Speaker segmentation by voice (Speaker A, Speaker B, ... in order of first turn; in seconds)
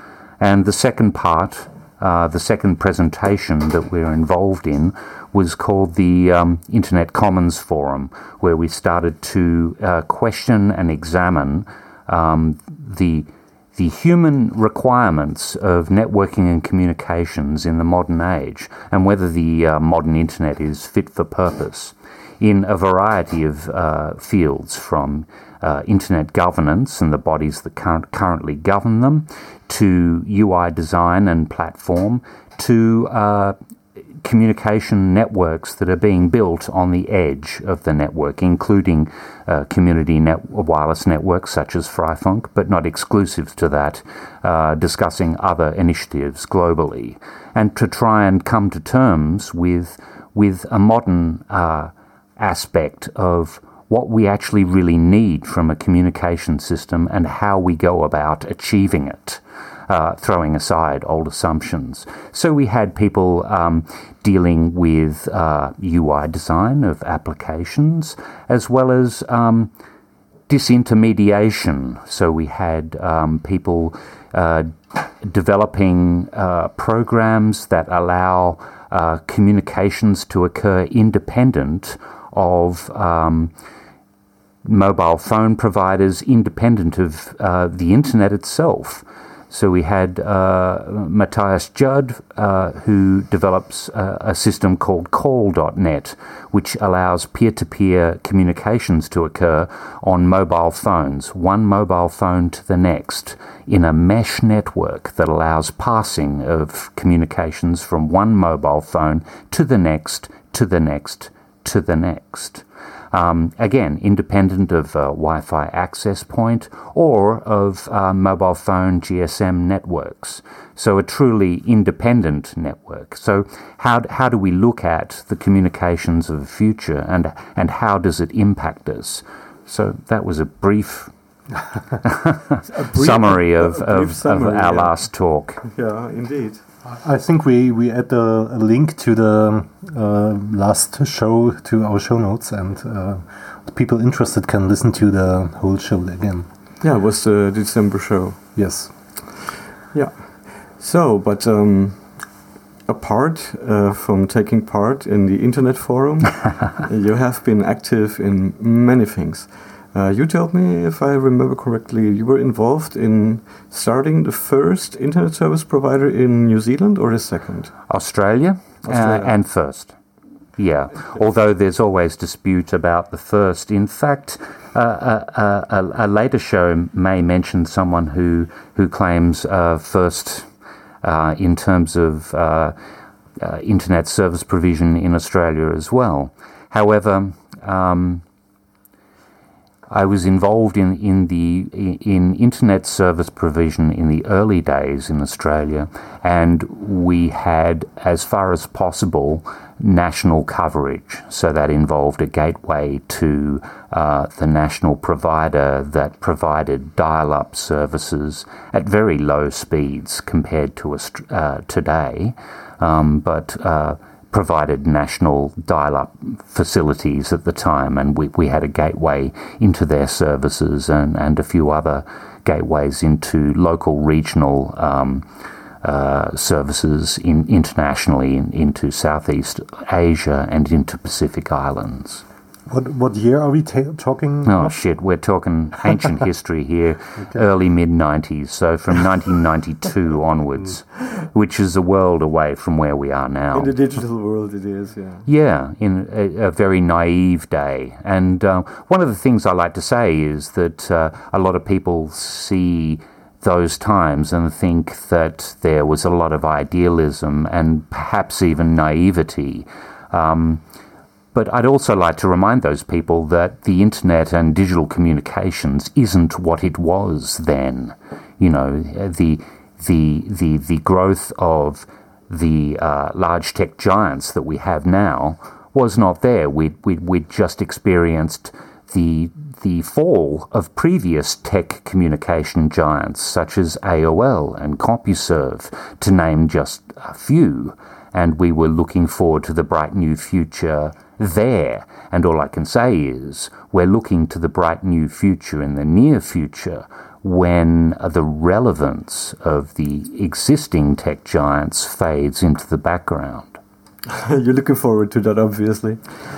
Speaker A: 0.4-33.5, 34.2-69.7, 70.5-83.5, 84.6-131.1, 132.0-135.6, 167.9-169.9, 170.6-180.5, 181.0-182.8, 183.4-188.2, 189.9-225.2, 225.8-232.2, 234.4-243.7, 245.3-260.6, 261.3-303.6
Speaker B: 132.6-134.9, 135.6-136.6, 146.8-148.4, 149.9-152.2, 152.9-167.7, 168.8-169.3, 243.5-245.3, 304.1-306.0
Speaker C: 136.8-146.5, 148.6-148.9, 232.7-234.7